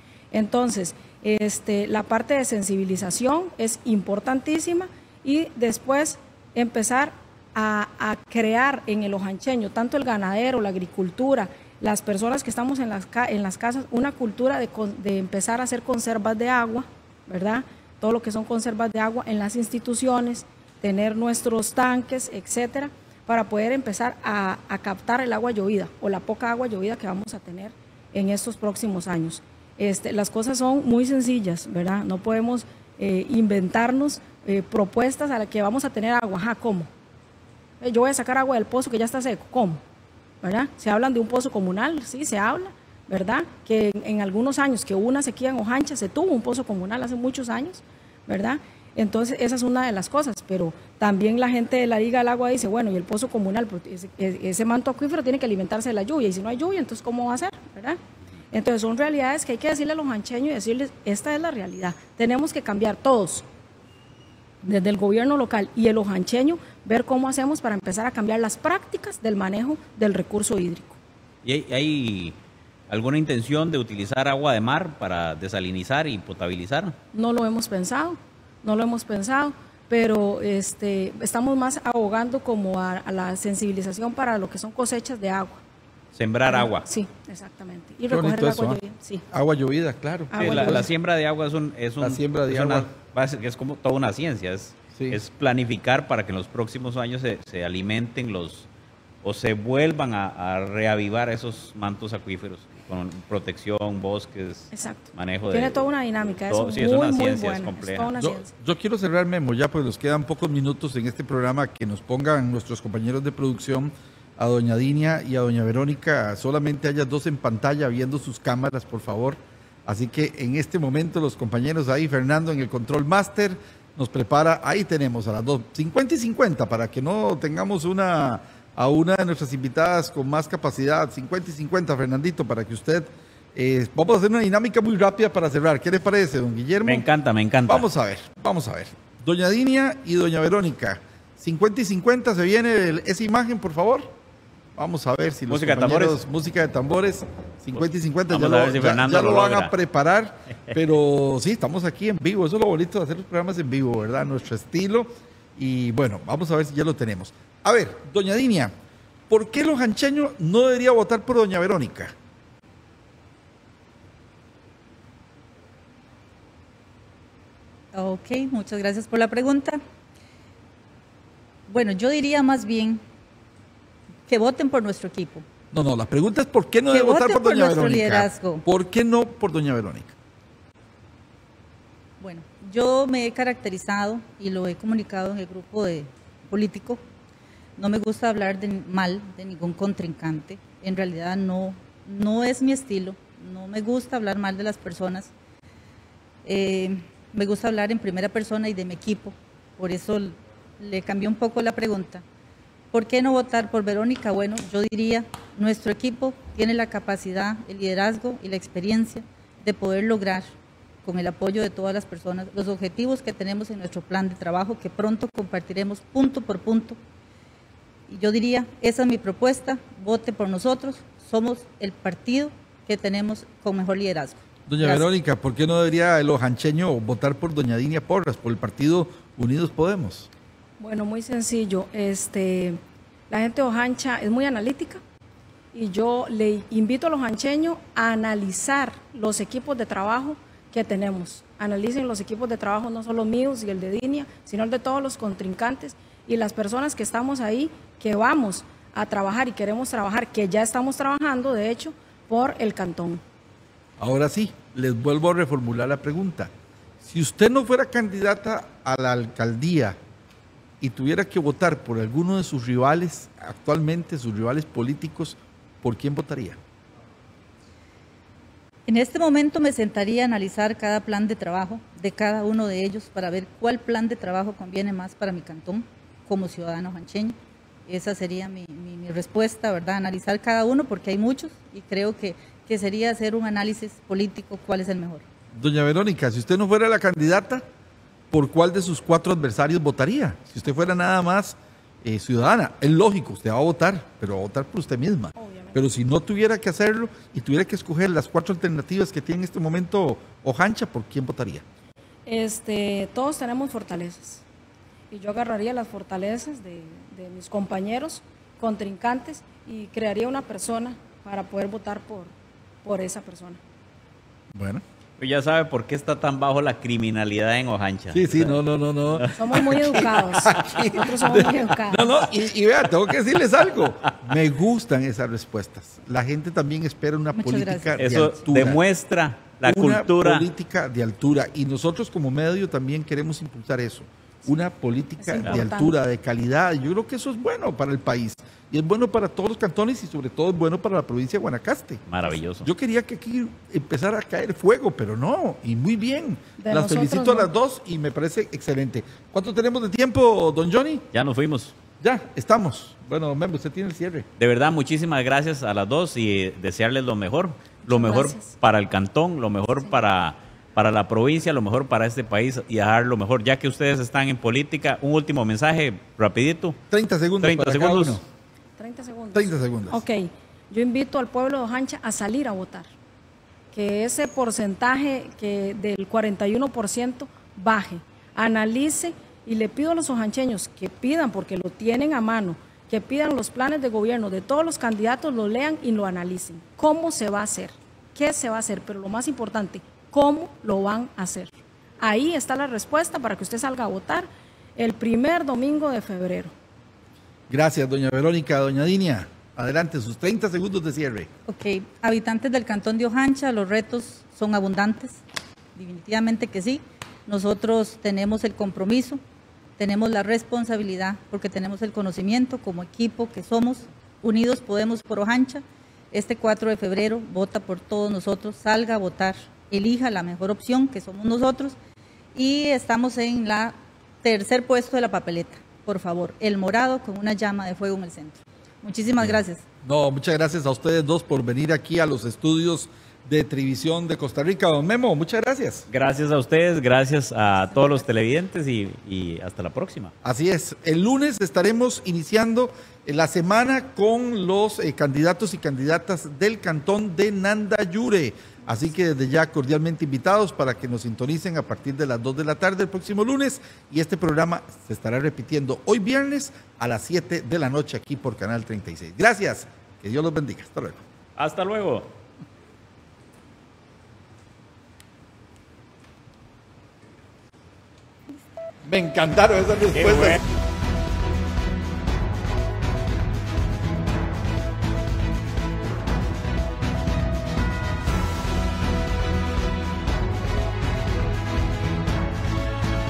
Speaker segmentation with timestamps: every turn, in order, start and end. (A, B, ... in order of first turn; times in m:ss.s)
0:00.3-0:36.9 A
0:37.8-0:39.8 A
0:40.4-0:58.0 A
0:58.5-1:03.4 A
1:04.6-1:11.0 A
1:11.4-1:12.3 B
1:12.9-1:17.0 B
1:17.1-1:25.6 A
1:26.1-1:26.9 B
1:26.5-1:29.2 A
1:28.1-1:30.9 C
1:30.3-1:30.9 A
1:30.4-1:38.7 B
1:32.0-1:32.9 C
1:35.0-1:35.2 C
1:39.2-1:45.8 B
1:44.7-1:48.5 A
1:46.5-1:48.1 B
1:48.2-2:17.1 C
2:16.8-2:17.8 B
2:17.7-2:24.1 C
2:24.8-2:38.7 C
2:25.5-2:26.2 B
2:28.3-2:29.7 B
2:39.3-2:42.1 C
2:47.9-2:49.8 D
2:51.7-2:53.0 D
2:54.3-2:55.4 D
2:55.7-3:00.1 C
2:56.9-2:58.6 D
3:02.2-3:07.0 D
3:07.8-3:15.3 D
3:16.4-3:22.2 D
3:22.9-3:30.5 D
3:31.0-3:37.0 D
3:38.1-3:45.0 D
3:44.7-3:50.3 C
3:50.8-3:52.8 A
3:53.3-3:55.0 A
3:55.7-4:13.2 A
4:14.0-4:20.0 C
4:20.8-4:26.6 C
4:28.9-4:45.2 D
4:45.5-4:47.6 C
4:48.3-5:01.6 C
4:55.4-4:55.8 A
5:02.2-5:04.4 A
5:05.1-5:12.3 A
5:12.8-5:13.6 A
5:14.5-5:14.8 C
5:15.2-5:18.6 B
5:18.1-5:28.8 C
5:19.1-5:20.5 B
5:19.3-5:22.2 A
5:27.3-5:28.3 D
5:28.0-5:30.5 B
5:29.6-5:42.0 C
5:35.2-5:35.9 A
5:42.1-5:42.7 B
5:42.6-5:51.0 C
5:46.6-5:47.5 A
5:51.1-5:51.8 B
5:52.0-5:54.3 C
5:54.4-6:06.8 B
5:57.9-5:58.5 A
6:06.9-6:08.2 C
6:07.4-6:08.2 B
6:08.8-6:12.9 A
6:09.3-6:10.0 C
6:13.7-6:36.5 A
6:37.5-6:41.3 C
6:41.5-6:45.2 D
6:45.8-6:49.2 D
6:49.8-7:01.8 D
7:02.3-7:09.6 D
7:09.2-7:15.8 C
7:15.9-7:20.1 B
7:20.2-7:41.0 C
7:41.4-7:42.1 B
7:48.8-7:50.4 C
7:50.0-7:50.4 B